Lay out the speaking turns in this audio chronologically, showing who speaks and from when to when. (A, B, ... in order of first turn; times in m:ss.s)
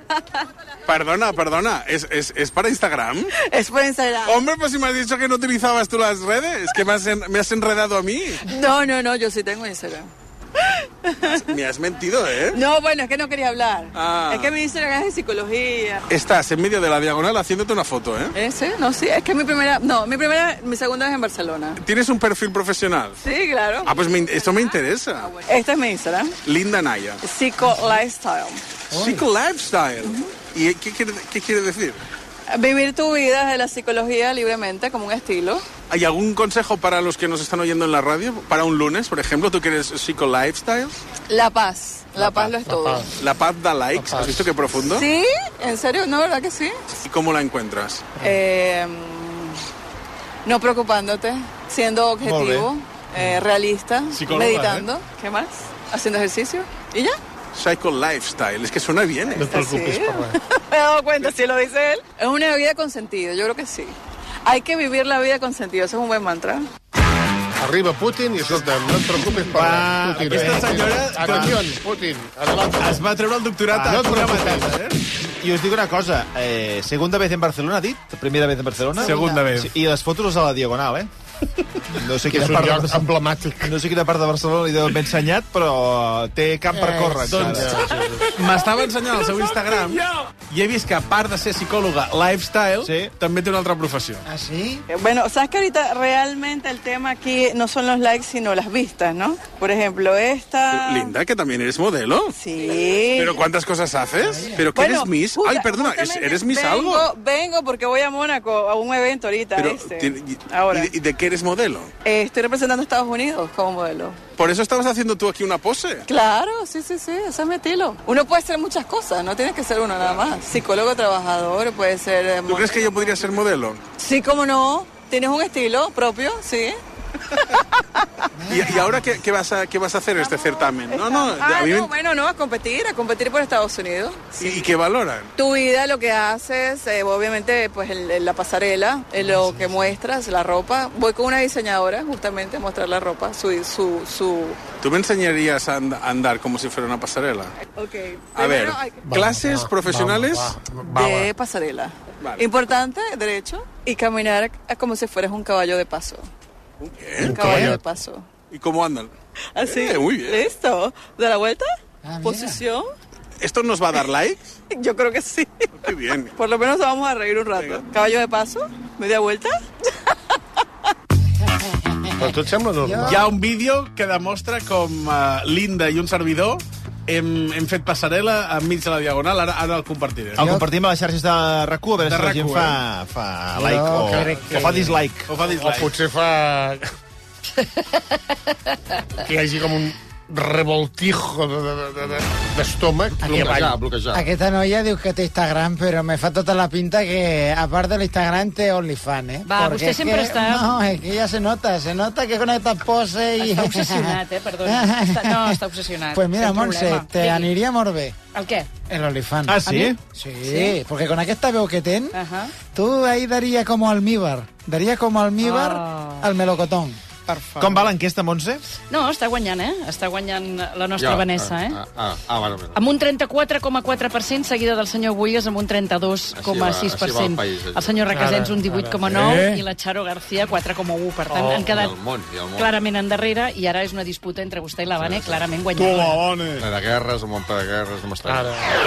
0:00.8-0:03.3 A
0:03.4-0:04.4 B
0:04.2-0:08.4 A
0:08.4-0:10.1 B
0:11.1-0:11.4 B
0:11.2-0:12.6 A
0:12.4-0:16.0 B
0:13.9-0:14.6 A
0:16.1-0:18.3 A
0:18.4-0:21.8 B
0:21.8-0:23.2 A
0:23.2-0:26.3 B
0:23.8-0:25.4 A
0:26.4-0:27.2 A
0:27.2-0:28.6 B
0:28.9-0:32.0 A
0:28.9-0:29.2 C
0:30.0-0:30.3 B
0:32.5-0:35.6 B
0:35.9-0:40.9 A
0:41.3-0:43.0 B
0:42.2-0:43.1 D
0:43.2-0:45.1 A
0:44.0-0:44.5 D
0:44.8-0:46.8 B
0:47.0-0:48.1 A
0:48.2-0:48.4 D
0:48.2-0:49.5 B
0:50.4-0:57.2 B
0:52.2-0:52.7 E
0:54.1-0:54.9 A
0:57.5-0:59.5 A
0:59.4-1:00.4 D
0:59.4-1:06.6 B
1:07.6-1:13.0 D
1:08.4-1:08.7 E
1:09.4-1:11.6 E
1:10.2-1:11.6 A
1:12.8-1:15.0 A
1:13.7-1:14.6 E
1:14.0-1:14.6 D
1:15.2-1:21.1 E
1:18.9-1:19.7 A
1:21.9-1:23.1 E
1:22.3-1:23.7 D
1:23.6-1:27.8 E
1:26.7-1:27.1 C
1:27.2-1:34.2 A
1:27.3-1:28.4 D
1:32.8-1:33.1 E
1:34.3-1:34.8 C
1:34.9-1:41.1 B
1:40.7-1:42.3 A
1:42.4-1:43.4 B
1:43.1-1:47.1 A
1:44.2-1:44.6 C
1:44.7-1:50.9 B
1:49.5-1:51.9 A
1:52.0-1:54.2 B
1:54.4-1:56.0 A
1:56.1-2:03.1 B
2:02.4-2:03.8 A
2:04.0-2:06.8 B
2:08.4-2:09.1 C
2:08.5-2:11.9 A
2:10.2-2:14.7 B
2:14.4-2:15.3 A
2:15.4-2:24.6 B
2:24.8-2:27.5 A
2:27.8-2:29.1 B
2:28.3-2:30.6 A
2:29.0-2:31.3 D
2:30.8-2:36.3 B
2:36.8-2:37.5 A
2:37.2-2:38.3 B
2:37.2-2:37.6 D
2:38.5-2:40.5 A
2:39.5-2:42.9 B
2:42.0-2:42.6 C
2:43.4-2:44.6 A
2:44.7-2:49.6 B
2:45.8-2:46.3 A
2:47.5-2:47.8 A
2:52.2-2:53.3 D
2:52.8-2:53.2 C
2:53.0-3:00.4 A
3:00.3-3:05.3 E
3:02.0-3:02.8 A
3:03.6-3:05.0 C
3:04.0-3:04.6 D
3:05.3-3:05.9 A
3:05.4-3:06.9 D
3:09.2-3:13.7 D
3:13.2-3:14.3 F
3:13.2-3:24.2 C
3:19.4-3:20.8 G
3:23.3-3:27.5 G
3:24.7-3:25.5 C
3:26.1-3:28.1 C
3:28.3-3:28.7 G
3:28.8-3:29.6 C
3:29.4-3:30.0 E
3:29.6-3:30.8 G
3:30.2-3:32.2 C
3:32.1-3:32.5 G
3:32.7-3:37.9 C
3:35.4-3:36.3 G
3:37.6-3:38.6 E
3:38.9-3:41.8 G
3:41.0-3:42.8 F
3:42.7-3:52.0 G
3:46.3-3:47.8 F
3:48.0-3:49.6 D
3:51.3-3:51.8 D
3:51.8-3:52.7 F
3:52.5-3:56.3 G
3:55.0-3:55.3 F
3:56.5-3:58.4 F
3:58.3-3:58.6 D